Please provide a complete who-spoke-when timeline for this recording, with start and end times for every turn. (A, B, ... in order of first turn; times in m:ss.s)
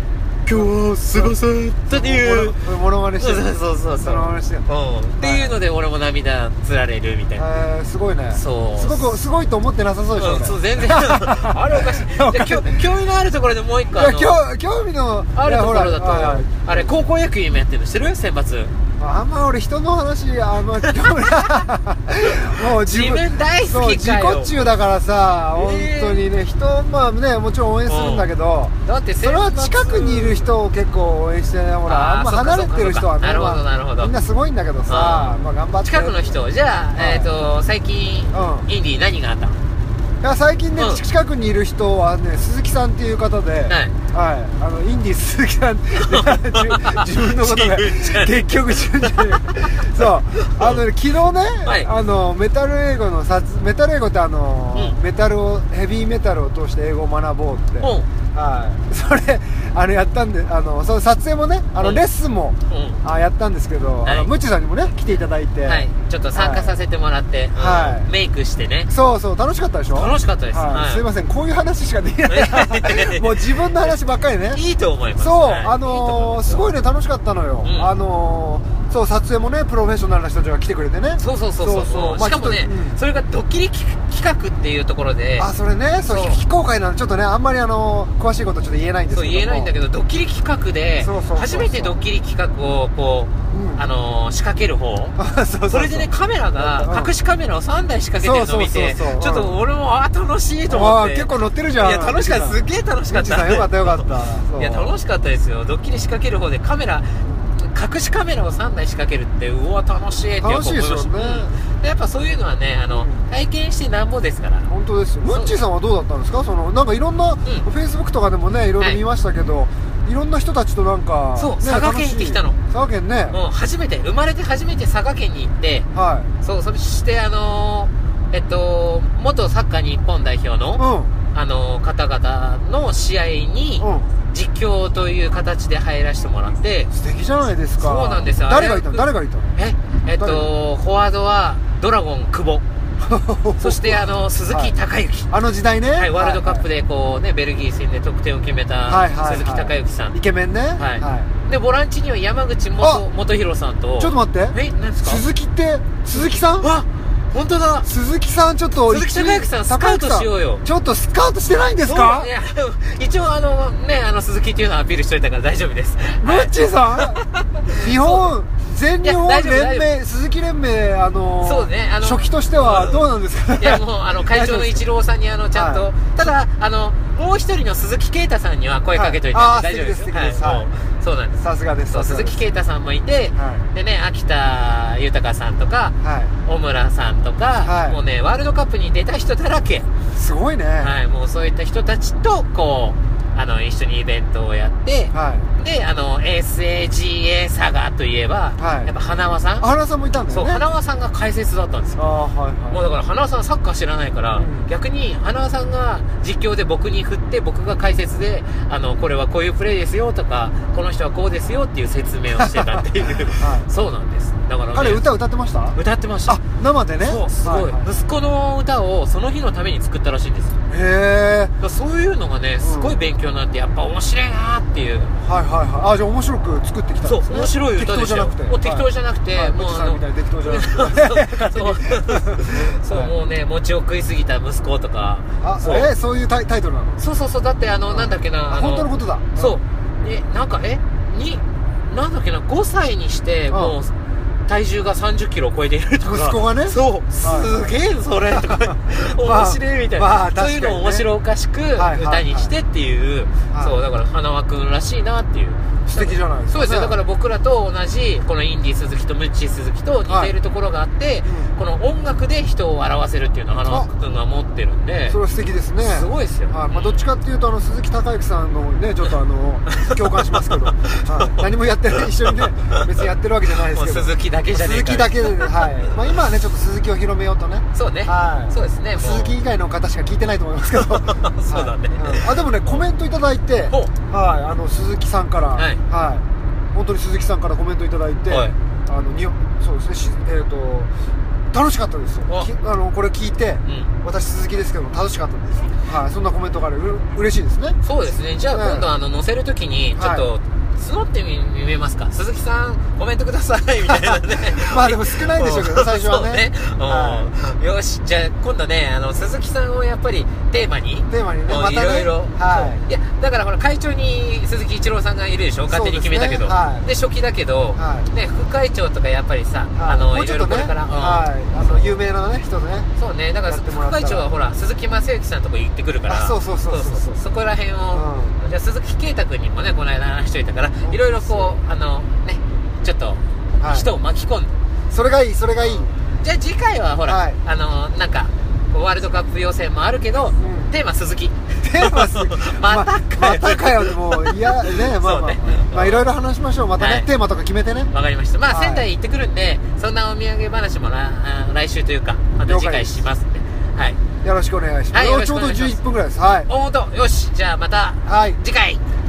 0:00.4-0:07.4 A
0:00.5-0:01.3 B
0:01.9-0:04.6 B
0:05.2-0:05.6 B
0:07.4-0:12.9 B
0:08.3-0:09.2 A
0:10.2-0:14.4 A
0:13.9-0:17.0 B
0:15.4-0:18.7 A
0:19.0-0:36.4 B
0:20.9-0:21.6 A
0:22.6-0:24.7 A
0:25.5-0:26.2 A
0:27.9-0:28.3 A
0:28.8-0:30.5 A
0:31.8-0:34.1 A
0:34.9-0:39.6 A
0:37.0-0:37.3 B
0:38.3-0:38.7 B
0:40.2-1:06.7 B
0:40.8-0:41.0 A
0:43.7-0:43.9 A
0:46.1-0:50.8 A
0:51.6-0:51.9 A
0:57.8-0:58.1 A
1:01.8-1:02.0 A
1:02.7-1:03.0 A
1:04.0-1:04.3 A
1:05.6-1:08.9 A
1:07.5-1:08.1 B
1:08.9-1:14.6 B
1:09.9-1:11.1 A
1:12.3-1:14.0 A
1:14.5-1:16.7 A
1:15.2-1:23.0 B
1:17.6-1:17.9 A
1:21.2-1:25.5 A
1:25.4-1:29.7 B
1:26.1-1:26.4 A
1:29.1-1:35.2 A
1:31.0-1:32.0 B
1:33.5-1:33.8 B
1:35.2-1:37.1 B
1:35.7-1:54.7 A
1:38.2-1:39.6 B
1:40.7-1:44.9 B
1:47.2-1:47.5 B
1:50.4-1:51.5 B
1:52.9-1:53.3 B
1:54.7-2:03.4 B
1:55.2-1:55.5 A
2:01.4-2:02.6 A
2:03.3-2:05.9 A
2:05.9-2:06.3 B
2:06.4-2:16.9 A
2:10.8-2:11.1 B
2:13.8-2:14.1 B
2:16.9-2:19.5 B
2:17.8-2:22.6 A
2:20.1-2:20.5 B
2:23.0-2:24.7 B
2:23.6-2:25.3 A
2:25.3-2:26.6 B
2:26.0-2:30.2 A
2:28.8-2:31.3 B
2:30.8-2:35.2 A
2:32.8-2:33.0 B
2:34.0-2:36.7 B
2:36.1-2:37.9 A
2:37.8-2:42.3 B
2:38.8-2:40.6 A
2:41.8-2:46.5 A
2:46.2-2:47.2 B
2:47.3-2:48.3 A
2:47.7-2:54.8 B
2:49.0-2:49.9 A
2:51.4-2:53.0 A
2:53.6-3:05.9 A
2:55.5-2:55.9 B
2:58.9-3:00.7 B
3:01.4-3:02.4 B
3:03.3-3:03.7 B
3:06.0-3:06.3 B
3:06.4-3:09.9 A
3:07.6-3:08.0 B
3:10.1-3:11.0 B
3:10.8-3:19.7 A
3:15.1-3:15.5 B
3:18.6-3:18.9 B
3:19.6-3:20.6 B
3:20.3-3:22.0 A
3:22.0-3:22.9 B
3:22.7-3:35.0 A
3:24.3-3:24.7 B
3:32.4-3:33.7 B
3:34.7-3:38.1 B
3:35.7-3:36.4 A
3:37.0-3:40.6 A
3:40.7-3:41.5 B
3:41.6-3:45.1 A
3:42.6-3:43.0 B
3:45.2-3:53.1 B
3:47.0-3:55.9 A
3:55.4-3:57.0 B
3:57.0-4:03.9 A
3:57.9-4:00.1 B
4:03.5-4:03.8 B
4:04.5-4:25.2 A
4:06.0-4:07.8 B
4:08.3-4:11.1 B
4:11.7-4:12.5 B
4:13.5-4:13.8 B
4:15.8-4:17.0 B
4:20.1-4:20.3 B
4:21.2-4:21.5 B
4:25.1-4:50.9 B
4:25.8-4:27.1 A
4:29.7-4:31.5 A
4:32.0-4:32.8 A
4:33.7-4:35.9 A
4:37.7-4:39.4 A
4:40.8-4:42.8 A
4:45.5-4:45.8 A
4:48.3-4:48.5 A
4:51.5-4:57.8 B
4:53.6-4:53.9 A
4:57.8-5:22.0 A
4:58.5-4:58.9 B
4:59.9-5:00.3 B
5:03.8-5:07.3 B
5:11.1-5:12.8 B
5:15.7-5:16.9 B
5:17.7-5:18.1 B
5:19.8-5:22.9 B
5:23.0-5:34.6 A
5:23.4-5:24.2 B
5:26.1-5:27.2 B
5:27.9-5:28.4 B
5:30.8-5:31.6 B
5:33.6-5:33.9 B
5:34.9-5:35.9 B
5:35.6-5:46.1 A
5:37.0-5:37.4 B
5:40.4-5:40.7 B
5:41.6-5:47.9 B
5:46.8-5:47.1 A
5:47.9-5:54.0 A
5:48.5-5:48.8 B
5:52.4-5:53.0 B
5:54.2-5:56.5 B
5:54.9-5:55.8 A
5:56.5-5:58.8 A
5:58.0-5:58.4 B